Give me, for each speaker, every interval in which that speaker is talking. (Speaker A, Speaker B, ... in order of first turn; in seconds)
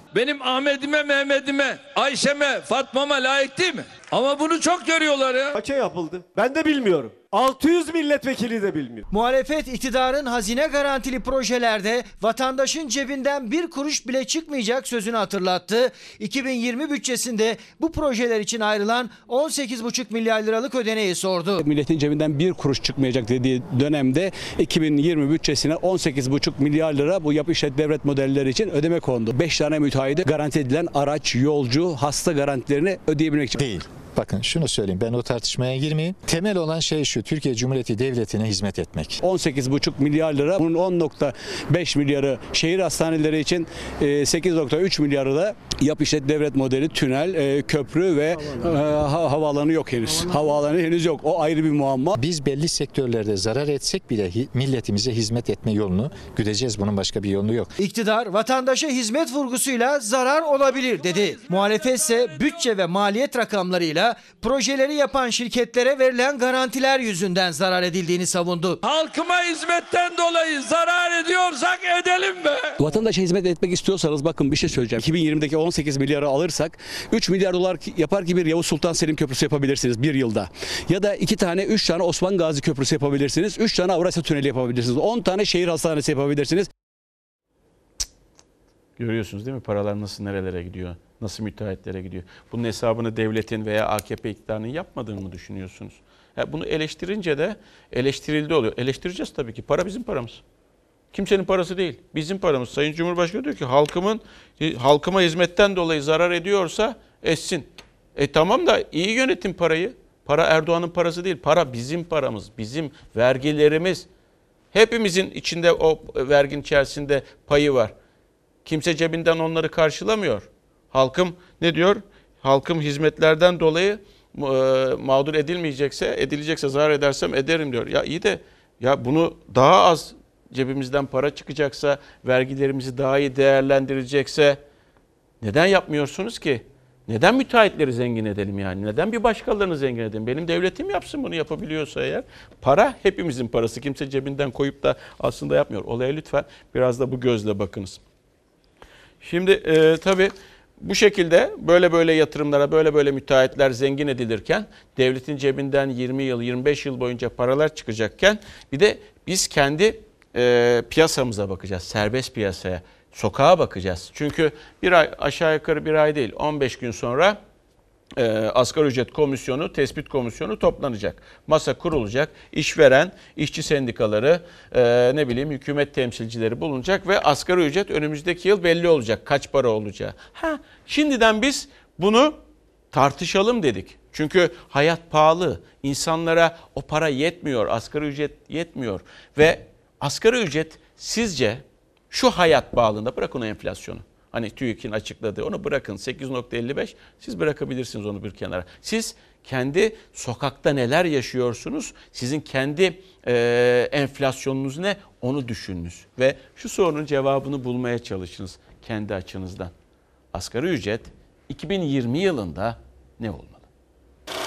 Speaker A: 0.1-5.5, 68.8-72.8
Speaker B: 5.5-9.0
Speaker C: 9.1-21.6, 57.8-68.8
Speaker D: 21.6-33.6, 39.2-52.1, 72.8-86.7
Speaker E: 33.5-39.2, 52.1-57.7
Speaker F: 89.0-100.4, 101.1-114.0, 114.7-117.9, 118.6-134.6, 135.4-148.0, 149.2-167.4, 168.2-182.4, 182.9-209.7, 210.3-213.7